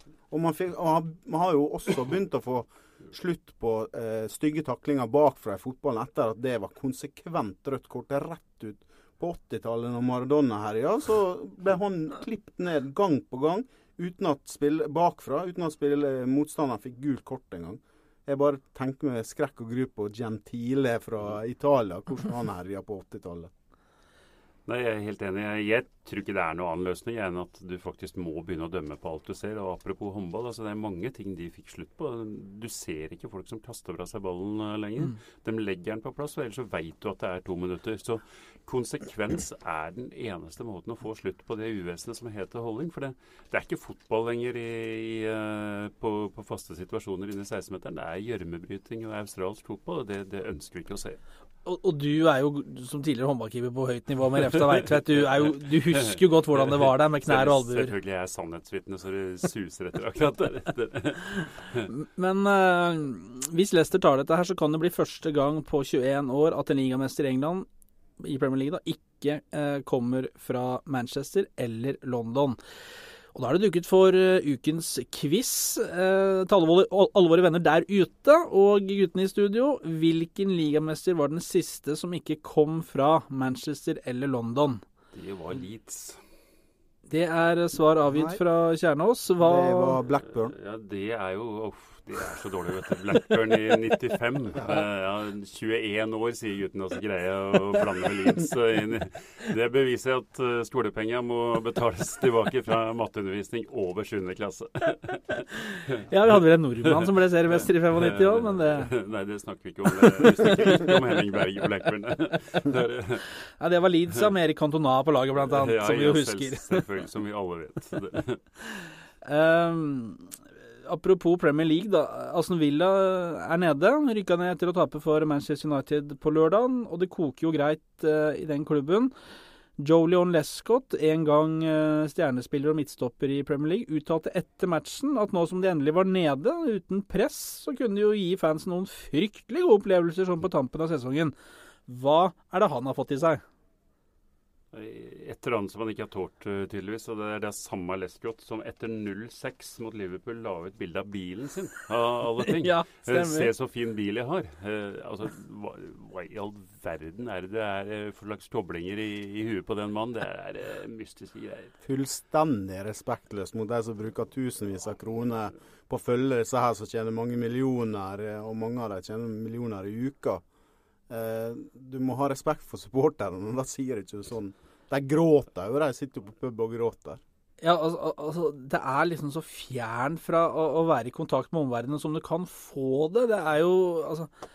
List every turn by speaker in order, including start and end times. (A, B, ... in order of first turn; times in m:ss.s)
0:00.3-0:23.5 A
0:24.6-0:51.2 B
0:51.6-0:57.9 C
0:56.1-1:01.9 B
1:01.9-1:07.7 C
1:08.2-1:12.6 C
1:13.3-1:24.8 C
1:25.1-1:26.2 B
1:27.1-1:30.0 C
1:28.1-1:28.4 A
1:29.4-1:30.5 A
1:30.4-1:46.0 B
1:46.1-1:48.9 C
1:46.8-1:47.1 B
1:47.9-1:53.3 B
1:53.6-1:56.8 C
1:55.4-1:58.4 B
1:59.2-2:00.3 C
2:00.8-2:09.1 C
2:09.8-2:21.3 C
2:21.9-2:23.4 C
2:24.7-2:41.7 B
2:32.4-2:33.5 C
2:41.8-2:50.4 A
2:51.1-2:57.2 A
2:57.6-3:04.3 C